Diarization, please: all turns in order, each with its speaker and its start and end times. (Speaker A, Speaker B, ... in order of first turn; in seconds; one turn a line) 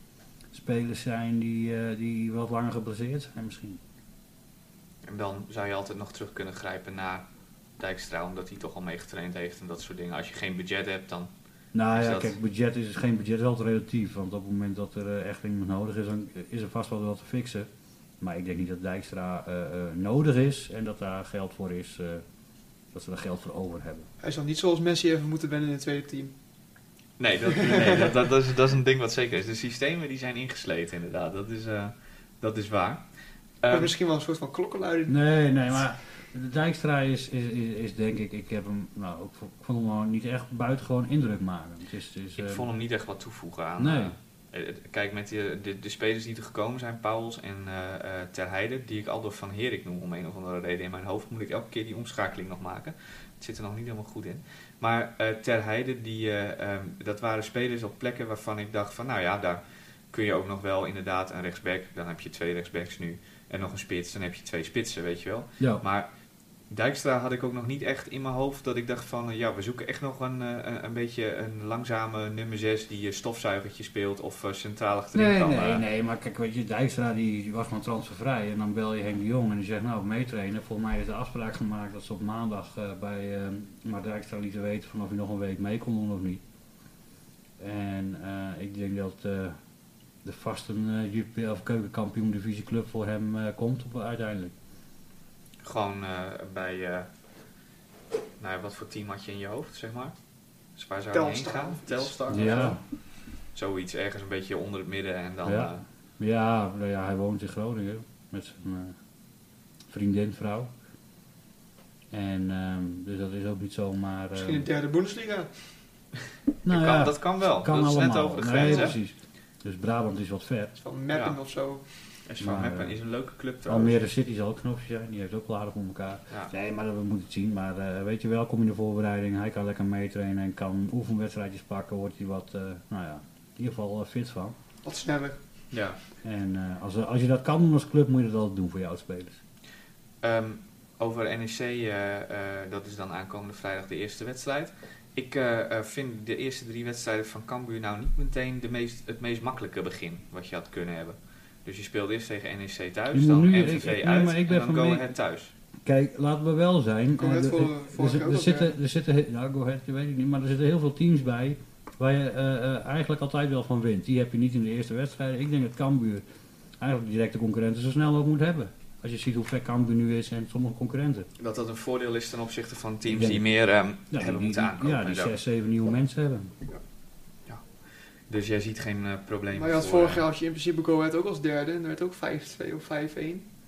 Speaker A: 0.5-3.8
Speaker B: 5.0-7.3
Speaker B: 7.8-11.3
Speaker A: 11.7-17.7
Speaker B: 11.9-12.3
Speaker A: 18.2-22.2
Speaker A: 22.9-24.1
Speaker C: 24.2-26.3
Speaker B: 27.2-33.0
Speaker C: 27.6-28.1
Speaker B: 33.6-33.9
Speaker C: 33.7-35.2
Speaker A: 35.1-42.6
Speaker B: 42.4-66.1
Speaker A: 43.8-44.1
Speaker B: 66.7-75.8
Speaker A: 75.1-86.4
Speaker A: 87.6-89.6
Speaker A: 90.2-94.5
Speaker B: 95.6-97.1
Speaker B: 98.4-100.1
Speaker B: 100.8-102.8
Speaker C: 101.1-102.7
Speaker A: 102.3-102.8
Speaker B: 103.5-105.8
Speaker A: 105.5-109.0
Speaker A: 109.9-110.7
Speaker A: 112.1-114.7
Speaker C: 114.3-115.5
Speaker A: 116.6-120.7
Speaker B: 116.7-119.0
Speaker C: 118.6-118.9
Speaker C: 120.8-121.8
Speaker B: 121.1-121.4
Speaker B: 122.3-124.0
Speaker A: 122.4-123.0
Speaker A: 123.7-134.6
Speaker C: 134.8-135.4
Speaker B: 135.7-136.0
Speaker A: 136.2-139.4
Speaker B: 140.2-155.5
Speaker A: 153.1-155.1
Speaker A: 155.8-166.2
Speaker C: 157.2-158.7
Speaker A: 166.8-171.3
Speaker B: 171.4-175.3
Speaker A: 173.1-173.4
Speaker A: 174.1-176.5
Speaker B: 178.3-180.2
Speaker C: 179.5-183.5